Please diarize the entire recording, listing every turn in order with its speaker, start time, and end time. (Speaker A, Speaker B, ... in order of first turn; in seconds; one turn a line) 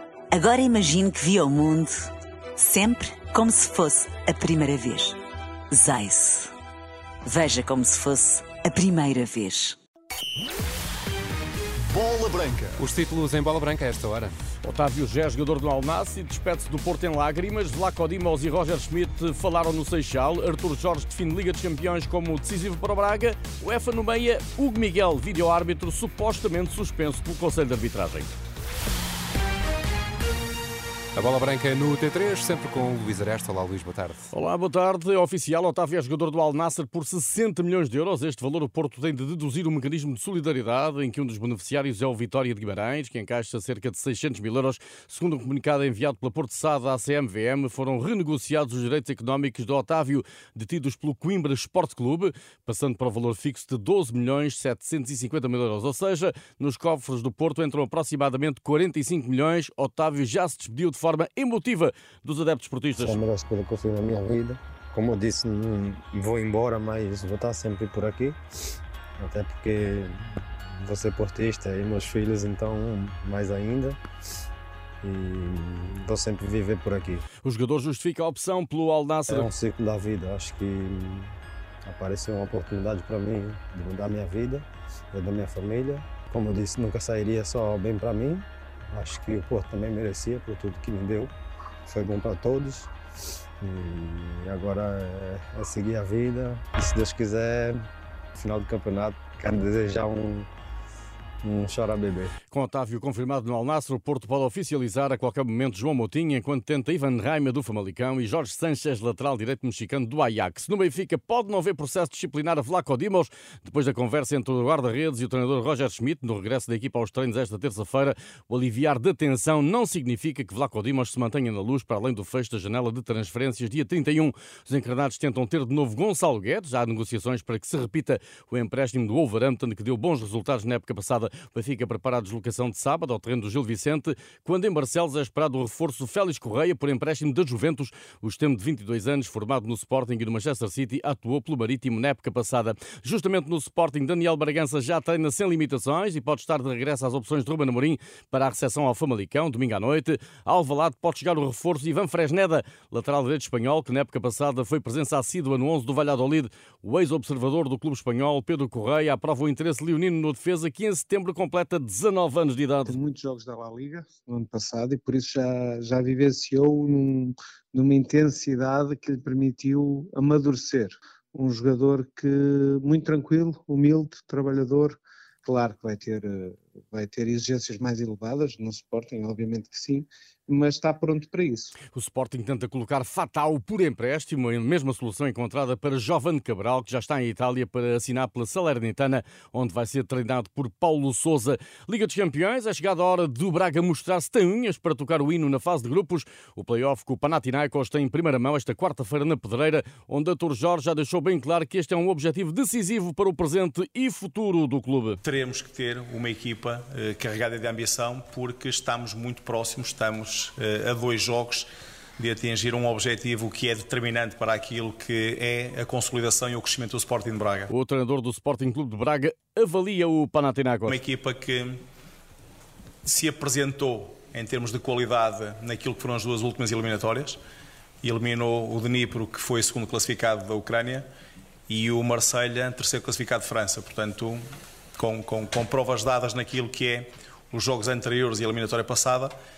Speaker A: 0.3-5.2
Speaker A: 5.7-6.5
Speaker A: 7.2-9.8
Speaker B: 11.9-14.3
Speaker C: 14.6-28.3
Speaker B: 31.1-34.3
Speaker C: 34.3-63.2
Speaker D: 63.0-68.4
Speaker D: 69.2-70.1
Speaker D: 70.8-74.0
Speaker D: 75.0-77.2
Speaker C: 77.4-79.5
Speaker D: 79.3-81.3
Speaker D: 81.8-91.3
Speaker D: 91.8-92.9
Speaker D: 93.6-97.8
Speaker D: 98.3-100.5
Speaker D: 101.4-102.3
Speaker C: 102.5-163.0
Speaker E: 162.8-181.7
Speaker C: 181.9-205.2
Speaker F: 205.2-217.7
Speaker C: 217.7-221.0
Speaker F: 220.9-221.8
Speaker F: 223.0-227.4
Speaker F: 228.0-231.1
Speaker F: 231.7-234.4
Speaker F: 235.0-239.3